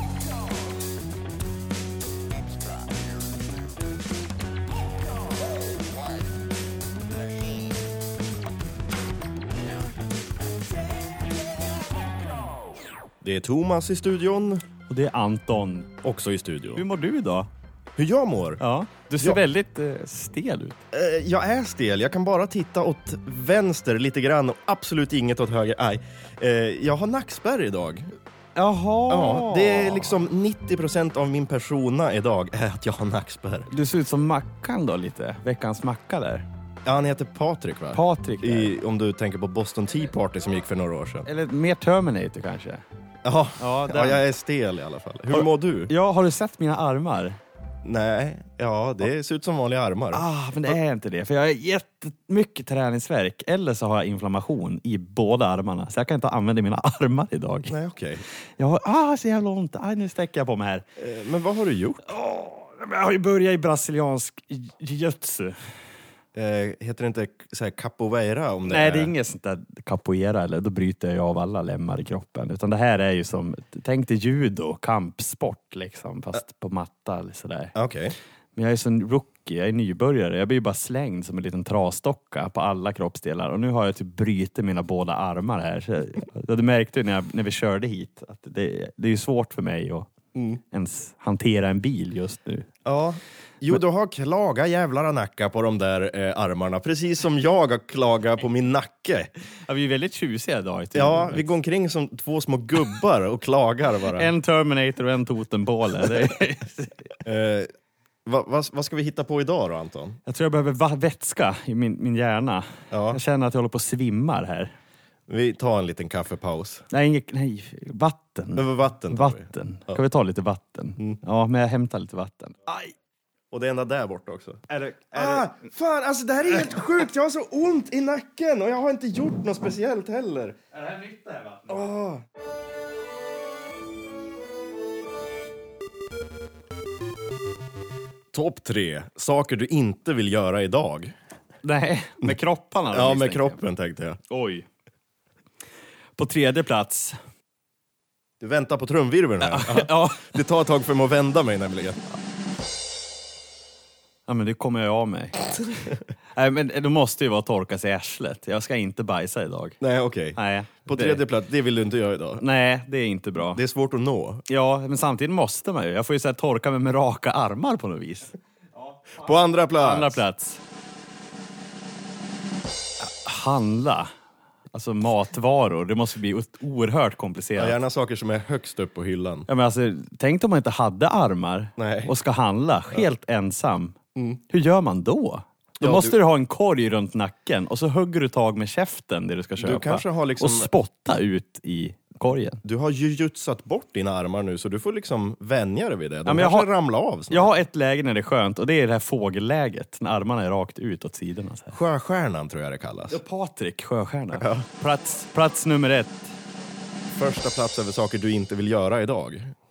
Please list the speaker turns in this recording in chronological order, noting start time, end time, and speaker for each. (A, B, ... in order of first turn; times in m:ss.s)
0:13.2-0:14.6 A
0:14.9-0:15.9 B
0:16.0-0:16.8 A
0:16.8-0:17.5 B
0:18.0-0:18.6 A
0:18.6-0:20.8 B
0:20.9-0:28.1 A
0:28.5-0:30.2 B
0:29.1-0:33.7 A
0:33.7-0:36.4 B
0:36.8-0:41.3 A
0:37.9-0:38.7 B
0:41.2-0:42.8 B
0:43.2-0:45.9 A
0:43.6-0:44.2 B
0:45.3-0:47.4 B
0:47.8-0:50.8 A
0:50.1-0:57.7 B
0:57.7-0:58.2 A
0:58.6-1:00.8 B
1:01.0-1:02.0 A
1:02.1-1:05.6 B
1:06.3-1:09.1 A
1:08.7-1:17.8 B
1:17.8-1:18.2 A
1:18.6-1:30.1 B
1:30.3-1:30.6 A
1:30.7-1:32.7 B
1:32.8-1:39.3 A
1:39.7-1:41.5 B
1:41.0-1:44.3 A
1:44.1-1:47.1 B
1:47.2-1:47.7 A
1:48.3-1:50.2 A
1:50.3-1:54.7 B
1:52.9-1:53.2 A
1:55.3-1:56.8 A
1:56.9-2:02.8 B
1:58.6-2:00.0 A
2:03.5-2:10.6 A
2:04.7-2:05.7 B
2:10.7-2:11.9 B
2:11.7-2:12.2 A
2:18.3-2:21.2 A
2:21.6-2:23.6 B
2:22.9-2:24.2 A
2:24.3-2:24.7 B
2:26.2-2:27.2 B
2:28.4-2:32.0 A
2:29.4-2:30.3 B
2:34.3-2:39.8 B
2:39.8-2:42.4 A
2:40.4-2:41.2 B
2:42.4-2:43.6 B
2:43.4-2:44.4 A
2:44.5-2:50.6 B
2:49.2-2:50.2 A
2:53.0-2:54.1 B
2:54.7-2:57.8 B
2:57.6-2:59.5 A
2:59.5-3:04.0 B
3:01.8-3:02.1 A
3:04.5-3:12.6 B
3:05.8-3:06.2 A
3:09.6-3:10.7 A
3:12.6-3:17.5 A
3:16.2-3:16.7 B
3:17.3-3:21.8 B
3:21.7-3:23.2 A
3:23.1-3:26.3 B
3:24.3-3:24.7 A
3:27.1-3:29.5 A